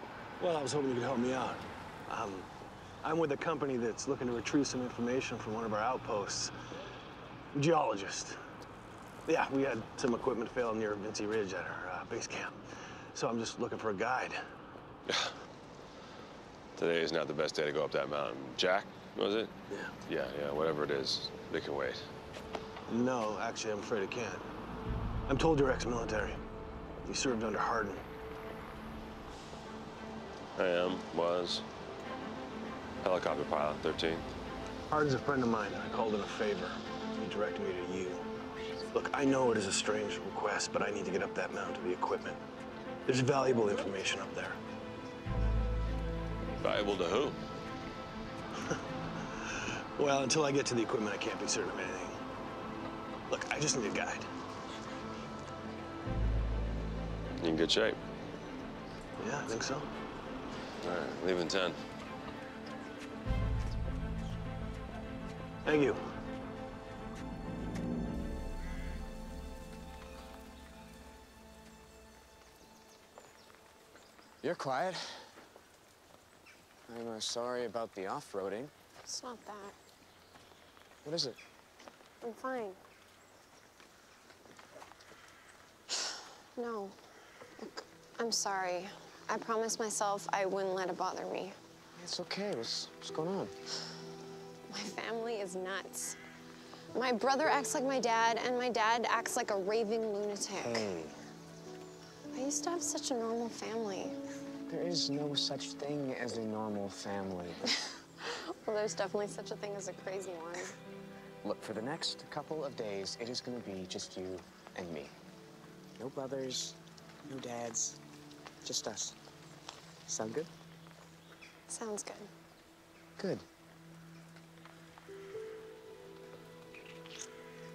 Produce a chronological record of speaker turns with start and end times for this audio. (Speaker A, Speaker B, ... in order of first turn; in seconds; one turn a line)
Speaker A: 0.4-2.5
Speaker A: 3.0-6.5
Speaker A: 7.5-8.4
Speaker A: 9.3-12.6
Speaker A: 13.1-14.4
Speaker B: 16.8-22.1
Speaker A: 19.7-19.9
Speaker A: 22.9-24.5
Speaker A: 25.3-26.4
Speaker A: 27.1-28.1
Speaker B: 30.6-31.6
Speaker B: 33.0-34.3
Speaker A: 34.9-38.3
Speaker A: 38.9-42.4
Speaker A: 43.1-44.6
Speaker B: 46.6-47.4
Speaker A: 50.0-52.2
Speaker A: 53.3-54.3
Speaker B: 57.4-58.0
Speaker A: 59.2-59.9
Speaker B: 60.8-61.8
Speaker A: 65.7-66.0
Speaker C: 74.4-75.3
Speaker C: 76.9-78.7
Speaker D: 79.1-79.8
Speaker C: 81.0-81.4
Speaker D: 82.2-82.8
Speaker D: 86.5-87.0
Speaker D: 87.6-91.6
Speaker C: 92.0-93.5
Speaker D: 94.7-96.2
Speaker D: 96.9-100.9
Speaker C: 100.5-101.2
Speaker D: 102.3-104.2
Speaker C: 104.7-107.6
Speaker D: 108.6-110.8
Speaker C: 111.4-115.2
Speaker C: 116.0-118.0
Speaker C: 118.6-119.2
Speaker C: 120.1-120.5
Speaker D: 121.7-122.3
Speaker C: 123.2-123.5